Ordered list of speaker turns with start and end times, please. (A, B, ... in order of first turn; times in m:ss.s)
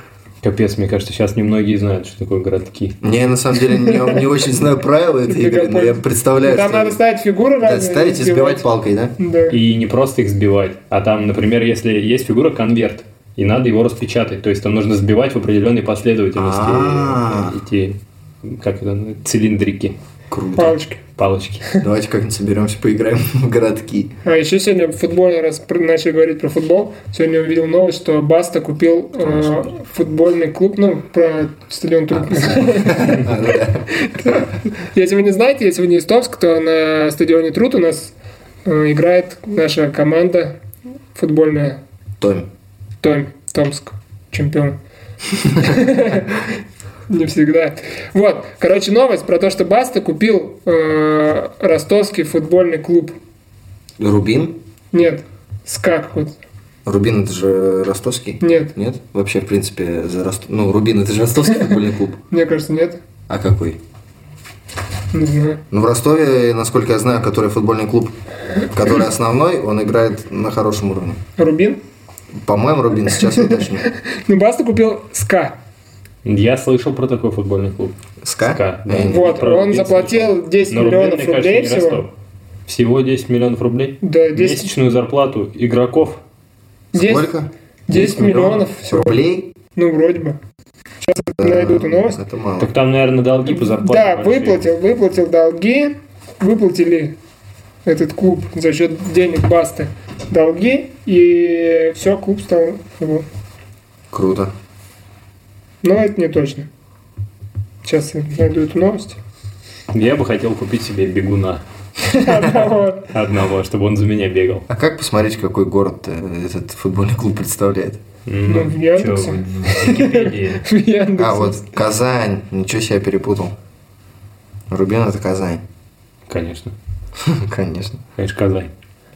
0:00.4-0:03.0 A
0:03.0-0:07.0 B
0:05.3-0:08.6 C
0:07.6-0:09.2 B
0:09.2-0:09.6 C
0:09.5-0:20.0 A
0:16.4-0:17.6 B
0:20.3-0:20.8 B
0:20.6-0:21.0 C
0:21.2-0:21.6 A
0:21.8-0:24.1 B
0:24.2-0:38.1 C
0:29.2-0:29.7 B
0:32.1-0:33.9 B
0:38.6-0:40.5 C
0:41.2-0:41.8 C
0:42.2-0:42.5 B
0:43.0-0:44.8 C
0:45.6-0:46.4 C
0:47.1-0:53.2 C
0:54.0-0:54.6 B
0:54.9-0:56.4 C
0:56.8-1:02.2 B
0:58.4-0:58.7 C
1:02.3-1:03.0 C
1:03.3-1:03.8 B
1:05.1-1:05.6 C
1:05.7-1:08.2 B
1:08.7-1:11.2 B
1:11.4-1:11.8 C
1:12.3-1:13.9 B
1:13.2-1:15.6 C
1:16.2-1:22.1 A
1:18.2-1:19.3 B
1:19.1-1:22.0 C
1:22.7-1:26.2 A
1:24.0-1:24.7 C
1:26.9-1:27.3 C
1:26.9-1:29.5 B
1:27.9-1:29.2 C
1:29.8-1:30.4 C
1:31.0-1:32.2 C
1:31.4-1:32.7 B
1:32.6-1:34.6 A
1:33.5-1:37.2 C
1:37.8-1:43.2 C
1:44.1-1:44.5 B
1:45.8-1:46.7 C
1:47.8-1:49.2 C
1:49.9-1:51.6 A
1:52.1-1:53.1 C
1:53.1-1:54.7 A
1:54.7-1:58.0 B
1:58.3-2:00.6 A
1:58.5-2:01.6 C
2:01.2-2:03.6 B
2:04.7-2:05.6 B
2:06.3-2:06.7 A
2:07.2-2:08.0 B
2:08.2-2:08.7 A